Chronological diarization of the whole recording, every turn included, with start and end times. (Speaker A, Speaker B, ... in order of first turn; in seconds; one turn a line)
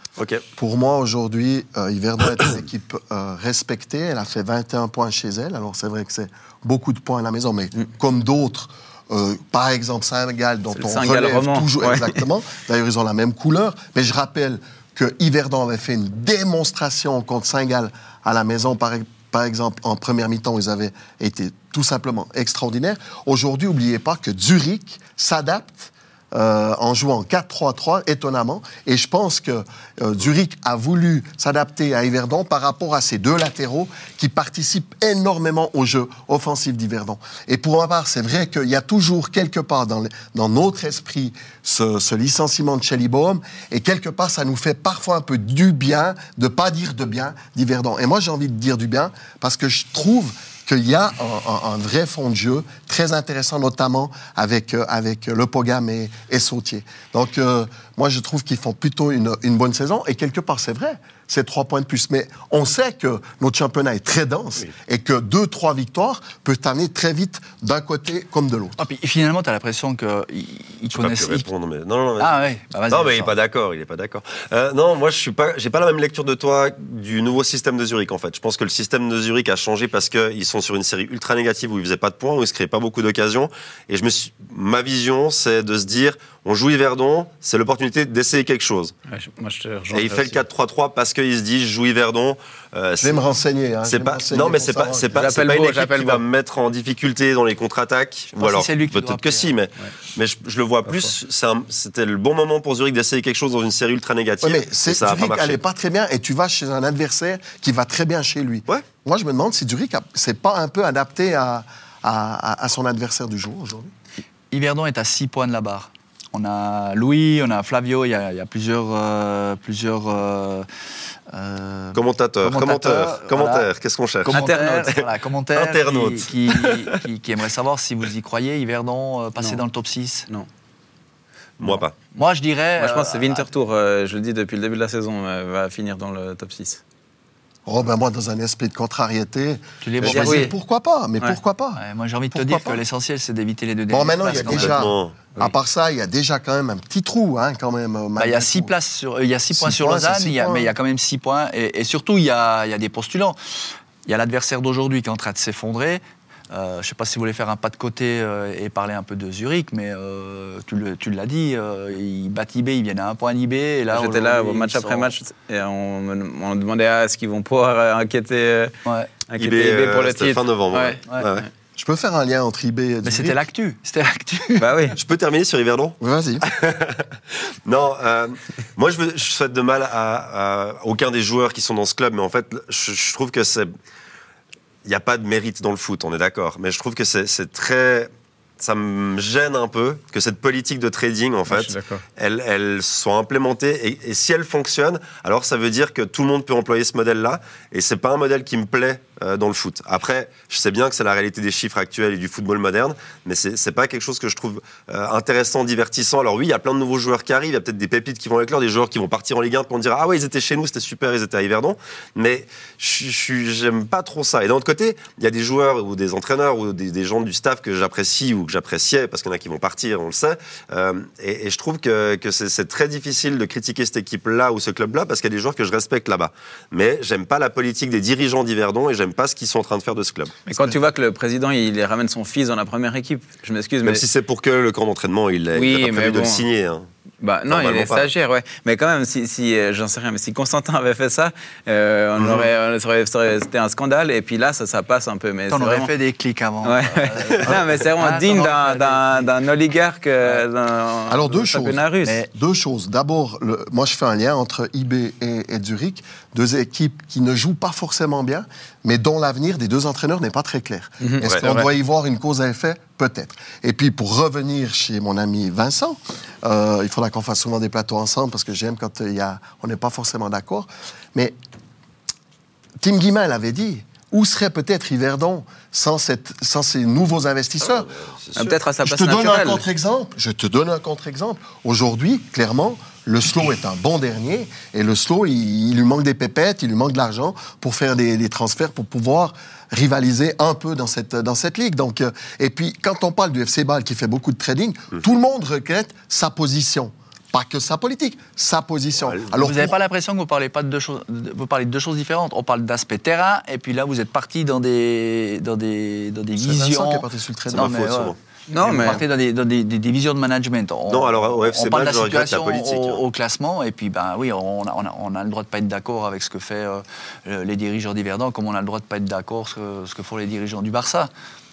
Speaker A: 0.2-0.4
Speaker B: 0.6-68.8
Speaker C: 10.7-12.2
Speaker D: 68.8-71.5
Speaker A: 70.9-72.3
Speaker D: 72.2-73.3
Speaker A: 72.9-88.9
Speaker C: 89.1-90.4
Speaker A: 89.9-93.2
Speaker B: 93.0-95.3
Speaker A: 93.8-105.6
Speaker C: 95.2-96.2
Speaker D: 98.3-99.6
Speaker C: 100.8-101.1
Speaker B: 104.4-113.9
Speaker D: 114.5-120.7
Speaker D: 121.3-123.7
Speaker A: 121.9-127.0
Speaker D: 124.2-130.3
Speaker C: 124.3-125.0
Speaker A: 131.6-131.9
Speaker D: 131.6-133.5
Speaker C: 132.8-136.8
Speaker B: 137.7-142.8
Speaker D: 139.8-140.5
Speaker C: 140.0-140.5
Speaker D: 141.8-144.9
Speaker B: 143.9-148.7
Speaker A: 144.4-145.2
Speaker D: 148.2-153.4
Speaker B: 149.5-150.7
Speaker D: 154.1-165.1
Speaker C: 163.9-168.7
Speaker D: 168.8-169.1
Speaker C: 169.3-171.5
Speaker A: 169.4-171.5
Speaker B: 171.8-173.4
Speaker D: 173.0-174.7
Speaker C: 174.6-175.0
Speaker A: 175.0-183.7
Speaker B: 176.0-176.5
Speaker A: 184.8-230.4
Speaker C: 191.5-192.0
Speaker C: 230.5-234.1
Speaker A: 233.8-236.9
Speaker C: 235.5-236.4
Speaker C: 237.2-245.9
Speaker A: 237.5-238.1
Speaker D: 245.5-249.3
Speaker C: 246.6-252.2
Speaker B: 251.1-271.4
Speaker C: 261.0-261.7
Speaker B: 272.8-277.9
Speaker A: 277.6-278.6
Speaker C: 278.4-279.6
Speaker B: 278.8-299.8
Speaker D: 299.4-321.1
Speaker B: 306.4-307.8
Speaker A: 307.5-308.2
Speaker C: 308.5-309.0
Speaker A: 310.9-313.0